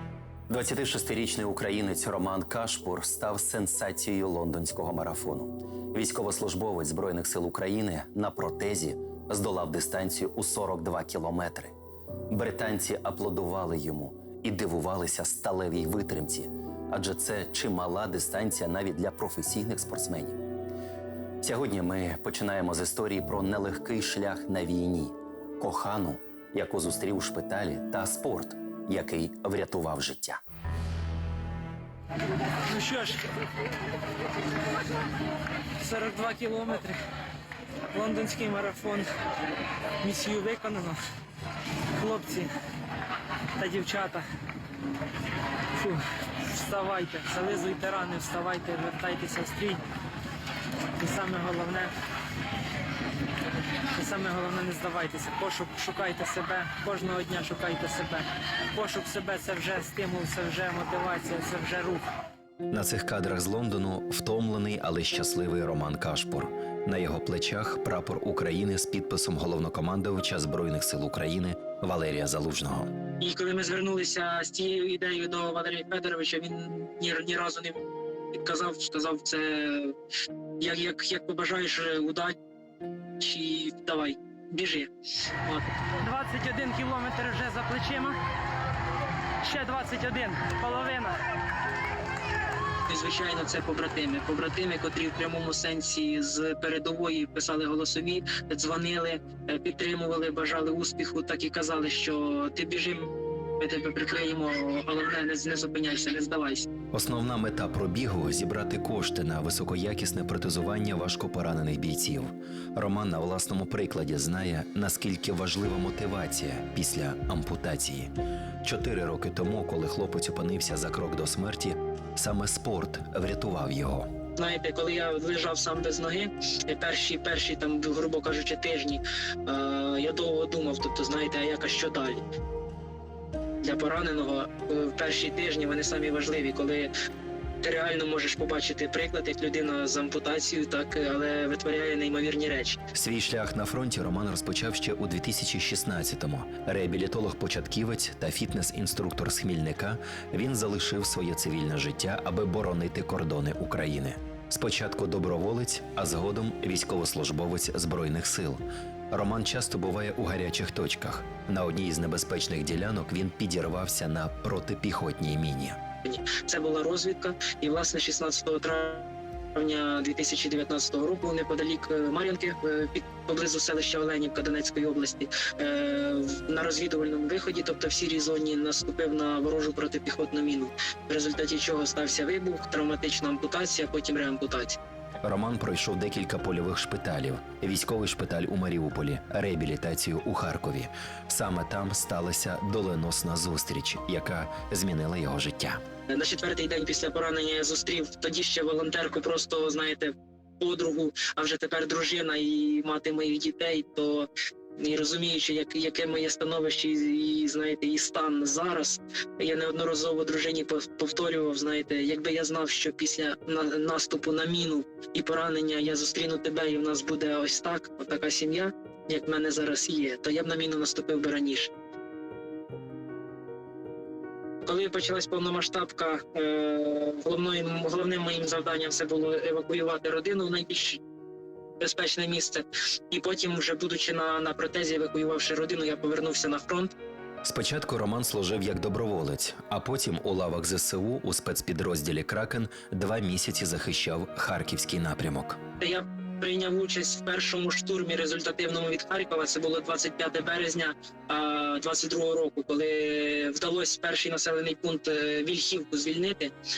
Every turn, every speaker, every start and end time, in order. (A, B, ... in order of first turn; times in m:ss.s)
0:00.5-0:11.7 A
0:12.3-0:20.4 A
0:21.4-0:30.4 A
0:32.7-0:33.2 B
0:35.8-0:37.0 B
0:37.9-0:39.1 B
0:40.0-0:41.0 B
0:42.0-0:42.5 B
0:43.6-0:44.2 B
0:45.8-0:49.8 B
0:51.0-0:51.9 B
0:53.9-1:02.0 B
1:02.7-1:12.9 A
1:13.2-1:17.8 B
1:18.3-1:19.9 B
1:20.6-1:22.4 B
1:23.2-1:24.9 B
1:25.4-1:28.2 B
1:29.4-1:31.1 B
1:32.9-1:46.7 B
1:46.9-2:04.1 A
2:04.4-2:12.2 B
2:13.6-2:16.9 B
2:17.6-2:22.8 B
2:22.9-2:45.8 A
2:46.0-3:04.8 B
3:05.2-3:15.8 A
3:16.1-3:41.7 B
3:44.6-3:51.0 B
3:51.8-3:56.9 B
3:57.4-4:05.6 A
4:05.8-4:16.5 B